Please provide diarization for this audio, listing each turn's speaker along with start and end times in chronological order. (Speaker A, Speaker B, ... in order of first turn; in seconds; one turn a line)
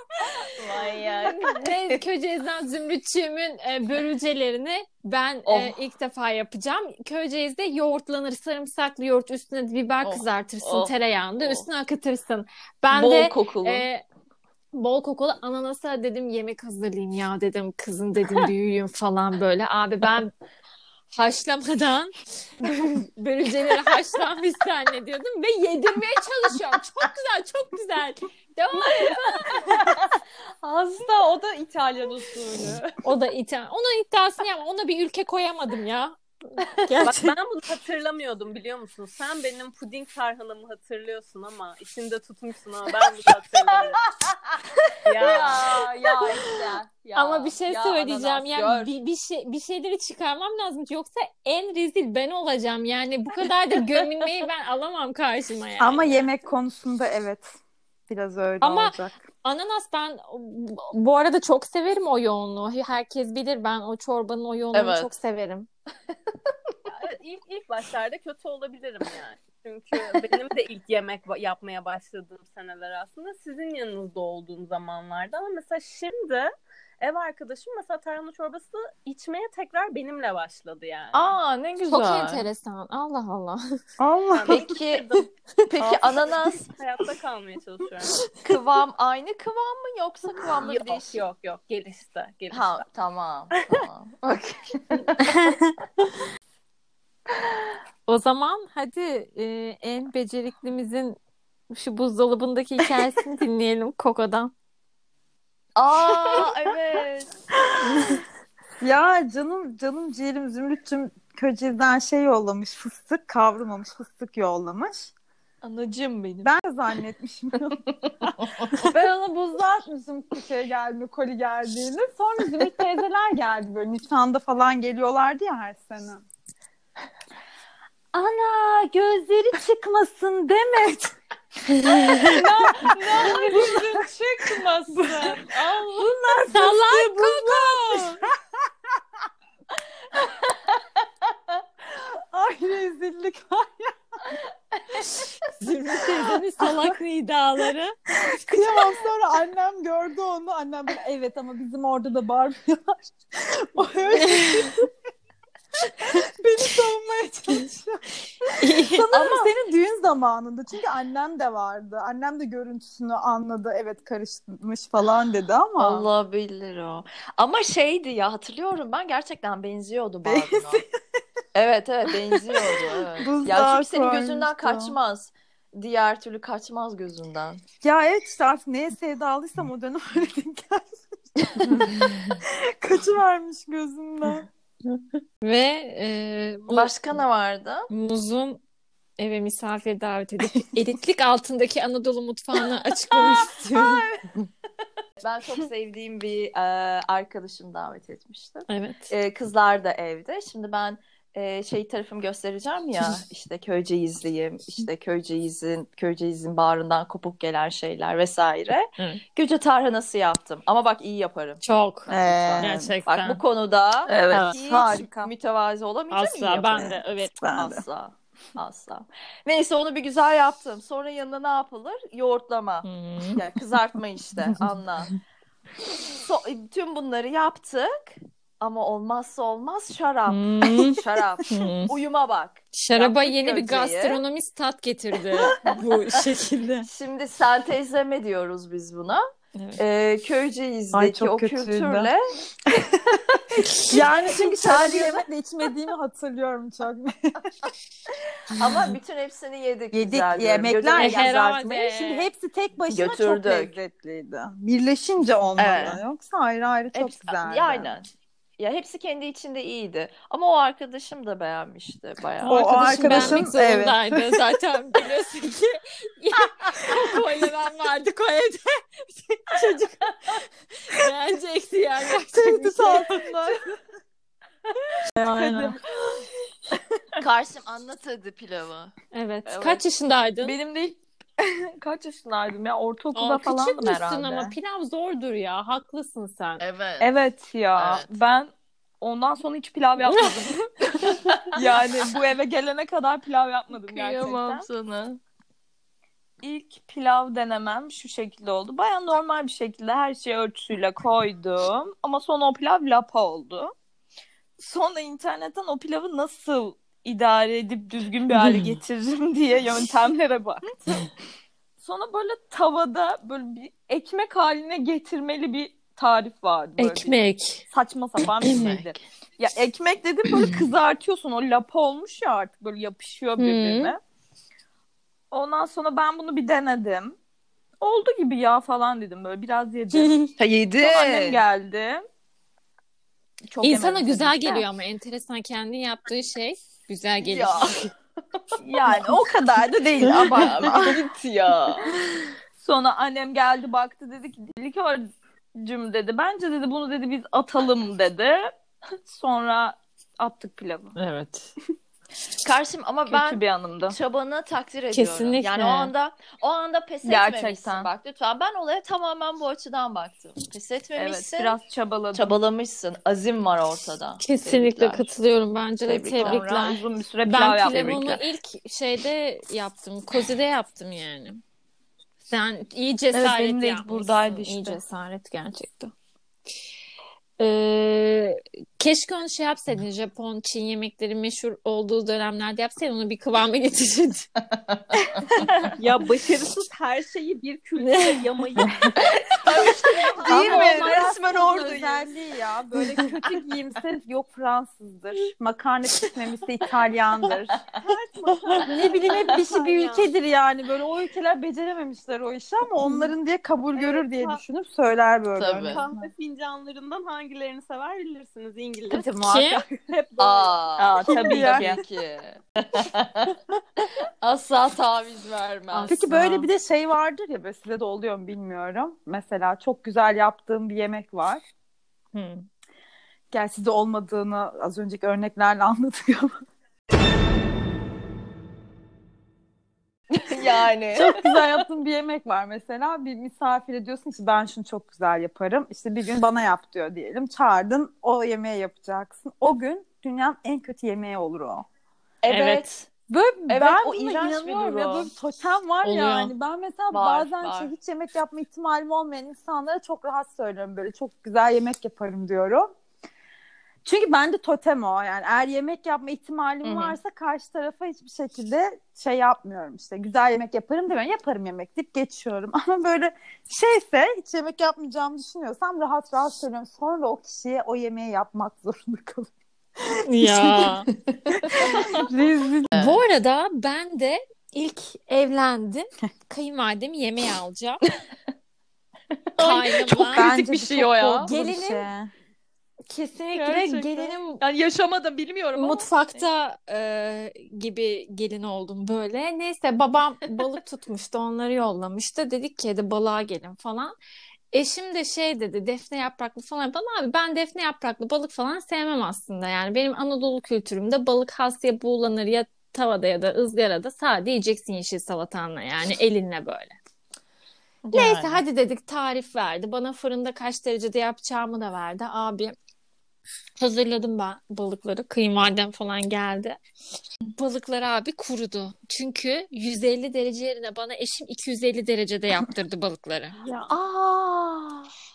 Speaker A: 0.1-0.4
Speaker B: 0.5-2.0
Speaker A: 1.0-14.0
Speaker B: 5.5-5.7
Speaker B: 10.0-11.7
Speaker B: 12.9-13.9
Speaker A: 14.7-20.3
Speaker A: 21.1-29.6
Speaker B: 29.8-30.0
Speaker C: 30.6-32.8
Speaker B: 30.8-31.0
Speaker B: 32.5-32.8
Speaker A: 33.0-37.3
Speaker D: 37.0-44.0
Speaker B: 44.1-48.9
Speaker D: 45.0-45.8
Speaker C: 45.3-47.1
Speaker A: 47.1-56.4
Speaker E: 55.8-57.5
Speaker E: 58.1-59.2
Speaker A: 58.6-65.7
Speaker B: 64.7-65.1
Speaker D: 66.8-81.3
Speaker B: 70.0-70.3
Speaker B: 81.1-82.5
Speaker A: 81.9-83.6
Speaker E: 84.0-84.6
Speaker D: 84.3-85.3
Speaker B: 84.5-85.1
Speaker B: 85.7-86.7
Speaker D: 86.7-88.2
Speaker B: 88.4-91.2
Speaker D: 90.6-92.8
Speaker B: 92.5-95.5
Speaker A: 98.1-101.2
Speaker A: 101.7-104.5
Speaker B: 105.8-107.3
Speaker E: 107.8-108.2
Speaker E: 108.8-115.1
Speaker B: 115.6-116.5
Speaker E: 116.4-126.2
Speaker B: 118.0-118.9
Speaker E: 128.1-131.1
Speaker A: 131.8-132.3
Speaker C: 132.2-136.8
Speaker E: 132.2-134.0
Speaker E: 134.9-138.3
Speaker A: 136.5-138.2
Speaker E: 142.0-144.3
Speaker A: 145.6-148.6
Speaker E: 148.4-154.9
Speaker A: 154.2-154.8
Speaker E: 156.0-166.1
Speaker A: 158.6-159.2
Speaker B: 159.1-159.5
Speaker B: 165.8-170.8
Speaker E: 170.2-170.8
Speaker B: 171.5-177.6
Speaker E: 172.5-174.9
Speaker E: 177.8-180.9
Speaker E: 181.6-184.5
Speaker A: 185.0-186.9
Speaker B: 186.7-187.9
Speaker A: 187.9-188.6
Speaker A: 189.2-194.0
Speaker B: 193.1-194.3
Speaker B: 195.2-217.0
Speaker A: 198.7-199.1
Speaker A: 211.6-213.4
Speaker E: 212.1-212.9
Speaker C: 214.1-215.3
Speaker A: 216.1-217.4
Speaker E: 216.8-217.8
Speaker B: 217.5-225.2
Speaker A: 222.8-223.4
Speaker B: 225.9-234.2
Speaker A: 230.3-231.9
Speaker A: 232.7-236.9
Speaker B: 236.9-239.2
Speaker B: 239.8-242.3
Speaker E: 240.9-242.1
Speaker B: 243.3-243.6
Speaker E: 243.8-247.5
Speaker B: 244.3-245.2
Speaker B: 248.5-251.3
Speaker E: 249.9-257.9
Speaker A: 250.9-252.3
Speaker B: 252.9-253.8
Speaker B: 255.6-256.0
Speaker B: 256.9-258.1
Speaker B: 258.6-263.5
Speaker A: 262.4-273.1
Speaker E: 262.4-264.3
Speaker E: 272.3-273.6
Speaker C: 273.1-273.5
Speaker A: 275.1-275.7
Speaker E: 275.2-275.8
Speaker C: 275.4-275.7
Speaker B: 277.2-278.9
Speaker A: 279.1-280.6
Speaker B: 279.4-279.8
Speaker C: 280.4-284.2
Speaker A: 283.1-286.6
Speaker B: 283.8-284.5
Speaker B: 286.6-287.1
Speaker C: 287.0-288.5
Speaker B: 287.7-288.1
Speaker C: 289.0-290.6
Speaker A: 290.0-291.1
Speaker C: 291.5-294.6
Speaker B: 293.8-295.2
Speaker C: 296.4-303.7
Speaker C: 304.6-310.7
Speaker A: 308.3-308.8
Speaker C: 311.8-317.2
Speaker A: 316.8-317.6
Speaker C: 317.7-324.0
Speaker A: 318.4-318.8
Speaker B: 318.4-318.9
Speaker A: 323.4-323.9
Speaker C: 325.3-327.1
Speaker C: 327.8-330.2
Speaker A: 329.9-330.3
Speaker B: 330.4-331.4
Speaker C: 330.8-332.0
Speaker C: 333.5-334.7
Speaker A: 333.6-337.9
Speaker B: 337.3-337.8
Speaker C: 338.6-341.5
Speaker E: 340.1-340.9
Speaker B: 340.2-341.8
Speaker C: 342.6-348.5
Speaker C: 349.0-351.0
Speaker A: 350.9-351.5
Speaker B: 352.4-361.6
Speaker C: 353.1-354.0
Speaker A: 354.9-355.9
Speaker C: 357.0-357.9
Speaker C: 360.9-362.4
Speaker B: 362.1-365.0
Speaker A: 364.2-371.4
Speaker B: 365.9-366.7
Speaker C: 366.2-368.2
Speaker A: 372.3-375.9
Speaker C: 373.1-374.8
Speaker A: 377.4-384.3
Speaker B: 384.6-384.8
Speaker A: 385.5-385.7
Speaker D: 385.8-388.9
Speaker A: 387.8-388.7
Speaker B: 389.0-392.0
Speaker E: 390.2-397.6
Speaker D: 390.2-390.6
Speaker C: 390.4-391.1
Speaker D: 397.7-400.1
Speaker E: 398.5-406.1
Speaker A: 398.7-399.4
Speaker D: 403.7-404.4
Speaker B: 405.4-405.8
Speaker D: 405.7-409.1
Speaker E: 408.9-409.9
Speaker A: 409.2-409.6
Speaker D: 409.9-411.8
Speaker B: 410.2-413.4
Speaker E: 411.0-411.8
Speaker B: 414.2-416.0
Speaker A: 415.7-416.5
Speaker E: 415.9-421.4
Speaker A: 422.1-422.4
Speaker E: 423.3-426.3
Speaker B: 430.1-431.6
Speaker E: 430.9-441.6
Speaker B: 442.2-442.9
Speaker A: 442.3-442.7
Speaker E: 443.1-452.7
Speaker B: 443.5-445.1
Speaker A: 445.8-446.3
Speaker B: 446.9-447.7
Speaker E: 453.8-469.3
Speaker B: 456.6-456.9
Speaker A: 470.0-470.9
Speaker B: 471.1-471.9
Speaker E: 471.5-472.7
Speaker B: 472.7-473.0
Speaker A: 472.7-477.8
Speaker B: 479.3-481.1
Speaker A: 479.4-480.3
Speaker E: 480.1-482.1
Speaker C: 480.2-481.3
Speaker A: 481.3-481.9
Speaker A: 482.9-484.4
Speaker C: 483.3-485.8
Speaker A: 485.5-493.9
Speaker A: 494.5-506.8
Speaker B: 507.8-508.4
Speaker A: 507.9-512.5
Speaker A: 513.6-516.6
Speaker A: 517.3-523.4
Speaker B: 523.7-524.9